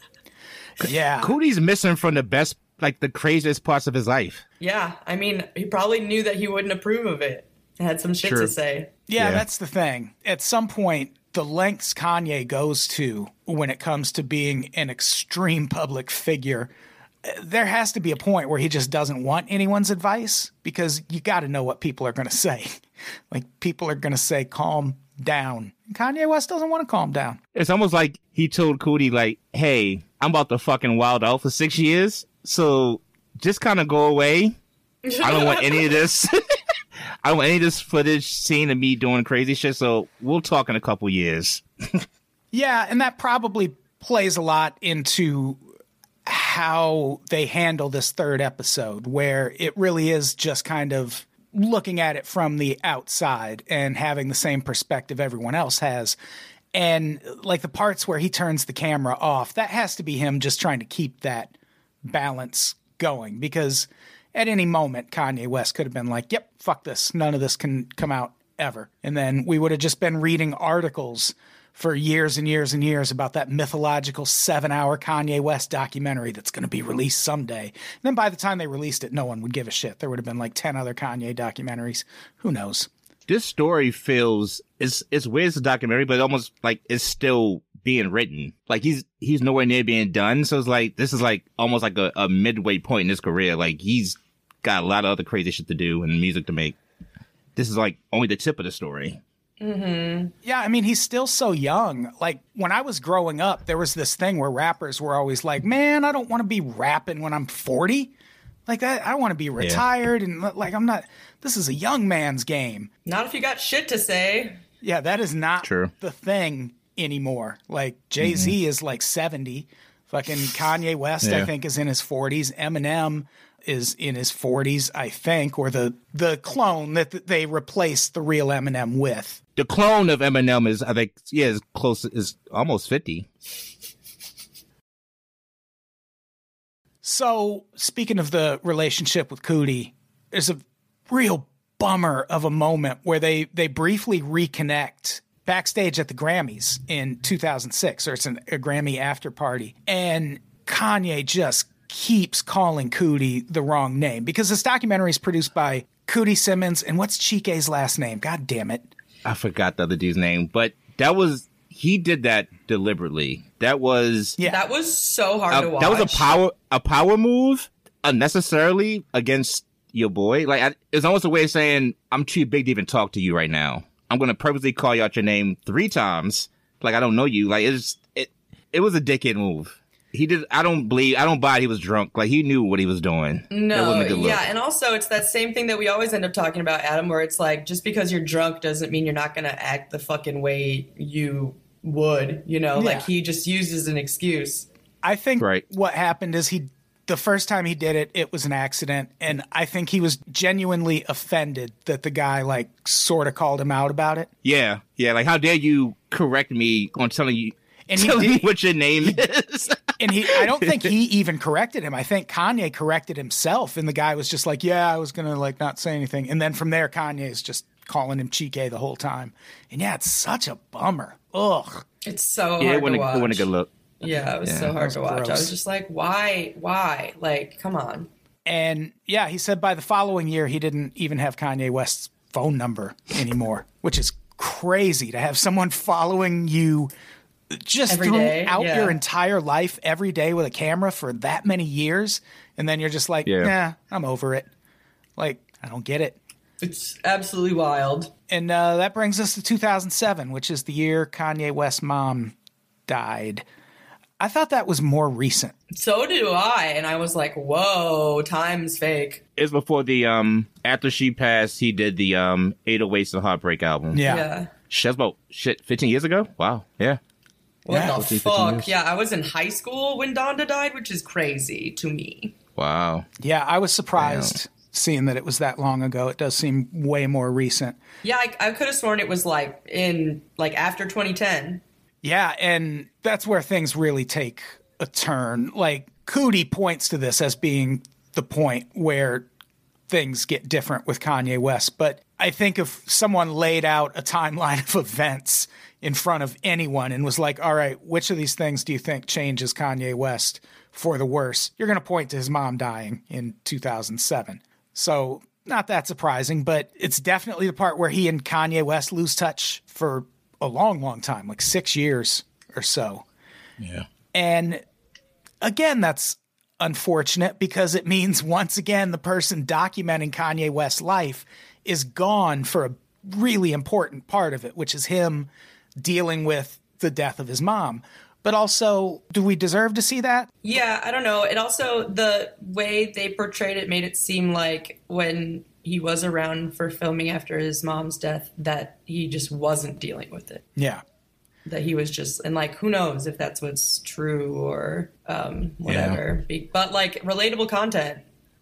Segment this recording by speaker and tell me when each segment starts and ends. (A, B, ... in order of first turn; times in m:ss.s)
0:00.8-0:01.4 A
0:01.2-0:04.4 B
0:04.6-0:08.9 C
0:08.2-0:08.5 B
0:09.1-0:16.7 A
0:09.2-0:09.4 B
0:17.2-0:27.4 A
0:27.6-0:34.5 B
0:35.0-0:35.9 C
0:35.2-0:36.4 B
0:37.2-0:42.0 B
0:42.5-0:45.6 A
0:46.3-0:56.2 A
0:56.7-1:01.5 A
1:02.0-1:22.9 A
1:23.3-1:36.8 B
1:37.6-1:39.2 B
1:39.6-1:40.3 C
1:40.4-1:48.1 A
1:48.7-1:52.9 A
1:53.1-1:54.6 C
1:54.8-2:09.4 A
1:55.6-1:55.9 B
1:58.2-1:58.5 B
2:01.2-2:01.5 B
2:09.6-2:13.3 B
2:17.0-2:38.9 A
2:39.2-2:44.4 B
2:44.4-2:46.3 C
2:45.5-3:04.4 B
3:03.5-3:14.7 C
3:12.8-3:13.1 A
3:15.0-3:24.3 A
3:24.4-3:30.8 B
3:27.9-3:28.5 A
3:30.0-3:41.8 A
3:42.0-3:43.5 C
3:42.6-3:43.7 B
3:44.0-3:48.1 C
3:44.4-3:44.7 B
3:44.8-3:45.5 A
3:48.5-3:56.9 A
3:57.5-4:04.5 A
3:57.9-3:59.0 C
4:03.2-4:03.5 B
4:05.2-4:06.2 A
4:06.6-4:08.1 C
4:08.3-4:12.4 A
4:12.9-4:13.4 A
4:14.2-4:15.5 A
4:15.7-4:19.2 C
4:19.4-4:24.0 B
4:23.9-4:24.3 A
4:24.0-4:24.5 C
4:24.7-4:27.0 B
4:27.6-4:32.4 C
4:27.7-4:28.0 A
4:27.8-4:28.7 B
4:32.6-4:33.1 B
4:33.2-4:37.8 A
4:34.0-4:34.3 B
4:38.0-4:41.6 C
4:42.0-4:49.3 A
4:49.9-5:13.0 A
5:13.6-5:13.9 B
5:14.1-5:14.6 A
5:15.4-5:30.4 A
5:30.4-5:40.4 C
5:40.6-5:40.8 A
5:41.5-5:48.0 C
5:45.7-5:46.0 B